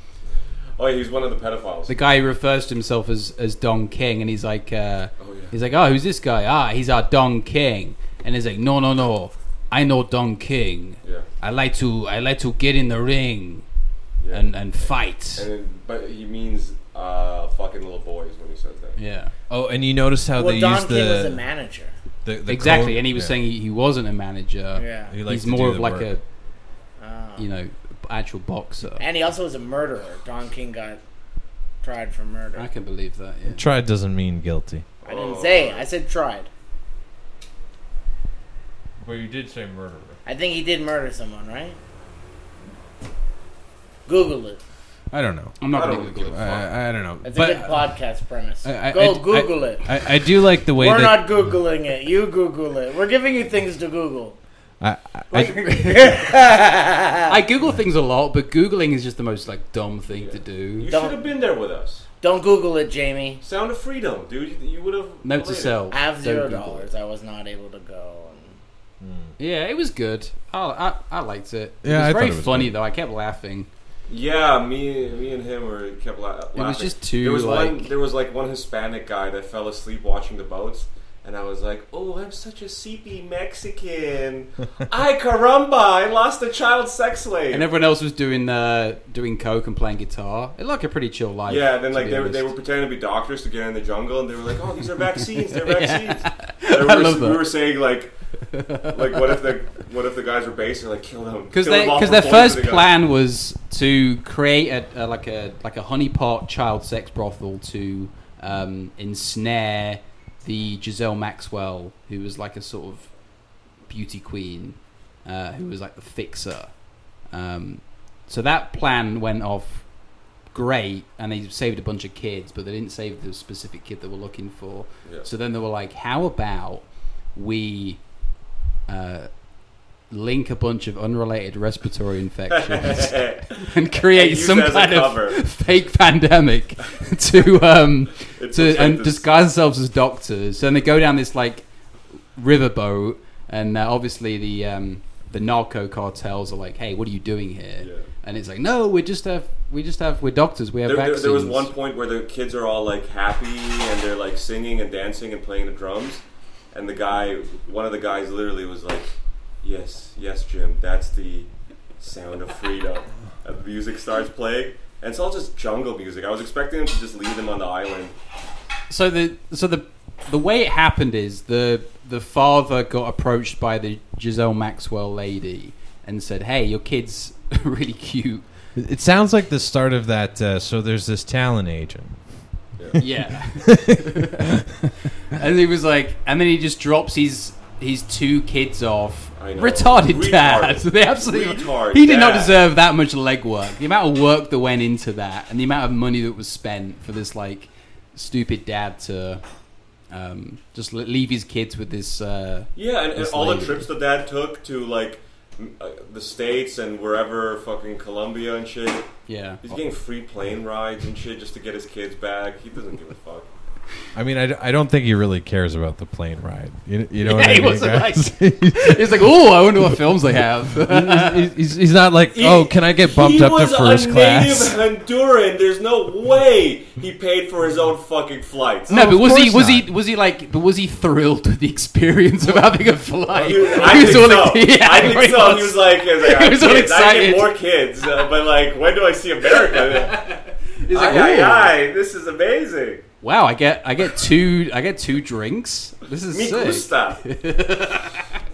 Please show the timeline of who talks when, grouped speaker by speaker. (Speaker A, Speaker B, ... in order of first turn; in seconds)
Speaker A: 0.8-1.9, 5.2-5.5, 14.2-14.5, 15.3-19.0, 35.0-35.9, 45.7-46.7, 60.1-62.0, 63.4-65.8, 74.1-87.7, 91.5-98.1, 98.9-102.9, 132.5-135.4, 138.2-139.3, 147.8-148.1, 150.8-159.1, 159.6-168.1, 189.4-192.6, 202.8-209.1, 209.6-213.5, 222.3-228.9, 233.3-240.2, 240.9-243.0, 246.3-247.2
Speaker B: 1.9-13.7, 14.3-15.5, 19.0-19.3, 22.5-26.2, 27.4-29.0, 32.6-33.6, 45.6-46.5, 57.3-60.9, 65.2-66.9, 69.4-73.7, 76.6-77.9, 87.5-92.5, 95.2-97.5, 98.5-99.3, 101.5-113.1, 113.9-119.9, 120.5-128.0, 128.9-129.3, 130.1-141.7, 142.3-151.7, 168.9-178.4, 183.0-184.7, 185.2-199.4, 200.1-203.9, 209.3-209.6, 217.2-221.5, 228.9-237.6, 239.6-241.8, 243.2-248.3
Speaker C: 19.5-21.4, 22.2-23.4, 25.1-26.1, 33.5-34.9, 39.0-40.2, 45.1-45.6, 46.2-47.9, 48.6-51.4, 54.8-56.4, 69.0-69.3, 71.8-72.7, 178.8-182.2, 183.6-184.8, 214.1-220.2, 220.7-224.8, 228.9-229.9
Speaker D: 20.4-21.9, 24.8-25.2, 27.0-27.5, 29.0-31.0, 31.8-32.7, 35.0-36.5, 40.3-41.8, 44.1-44.6, 47.2-50.1, 50.8-54.4, 55.3-57.4, 60.9-61.2, 62.2-63.4, 65.9-68.5